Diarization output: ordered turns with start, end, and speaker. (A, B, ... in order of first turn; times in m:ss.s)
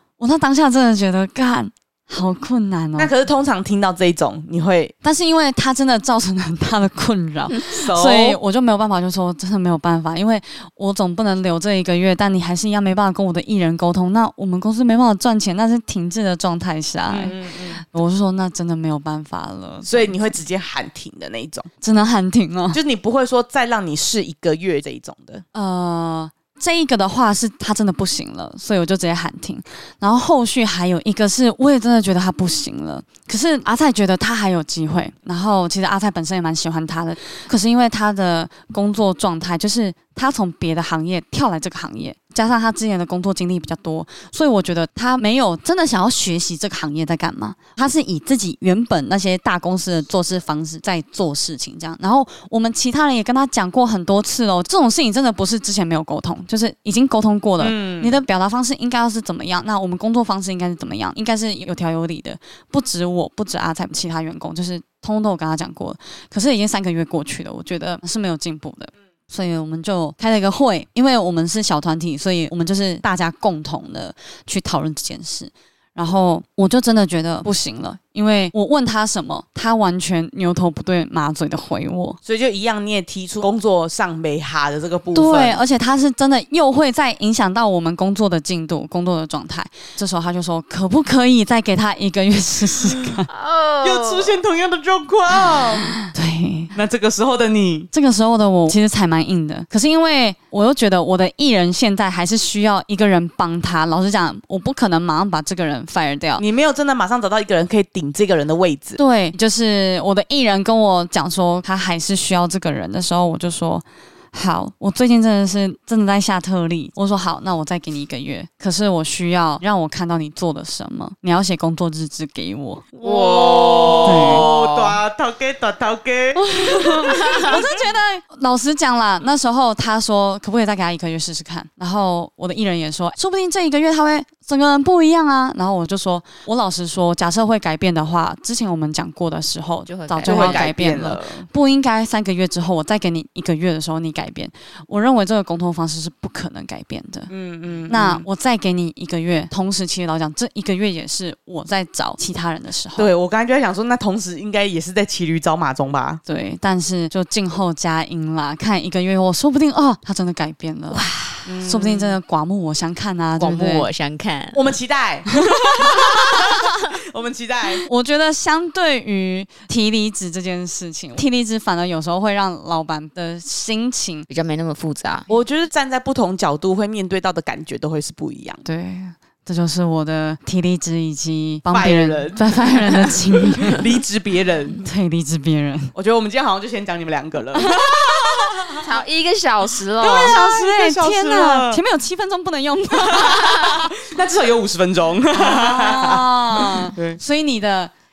0:00.2-0:03.1 A
0:03.0-0:04.9 B
0:05.0-0:20.1 A
0:07.7-0:08.4 B
0:17.1-0:17.8 B
0:19.8-0:21.7 B
0:21.8-0:22.8 A
0:22.7-0:25.4 B
0:25.5-1:22.2 A
0:57.6-0:58.2 B
1:22.2-1:25.6 B
1:25.1-1:33.3 A
1:33.3-1:34.4 C
1:33.8-1:35.9 B
1:36.0-1:36.7 A
1:36.7-1:37.9 B
1:37.9-1:46.4 A
1:46.4-1:49.0 B
1:49.0-2:02.8 A
2:02.9-2:07.6 B
2:03.0-2:05.0 C
2:04.0-2:04.5 A
2:06.4-2:27.3 A
2:07.1-2:07.5 C
2:19.9-2:20.7 C
2:20.2-2:21.5 B
2:27.3-2:28.2 B
2:27.9-2:33.1 A
2:33.0-2:36.2 B
2:36.2-2:41.0 A
2:40.9-2:41.4 C
2:41.4-2:42.2 B
2:41.6-2:43.8 A
2:43.4-2:44.7 C
2:44.5-2:47.8 B
2:45.5-2:45.9 A
2:47.9-2:54.3 A
2:54.3-2:55.3 C
2:55.3-2:58.6 B
2:58.6-3:03.8 A
3:01.7-3:04.8 B
3:04.8-3:05.9 A
3:05.9-3:08.8 B
3:07.6-3:08.7 A
3:08.8-3:10.3 C
3:10.0-3:11.8 B
3:10.0-3:13.9 A
3:13.0-3:17.2 B
3:15.3-3:17.9 A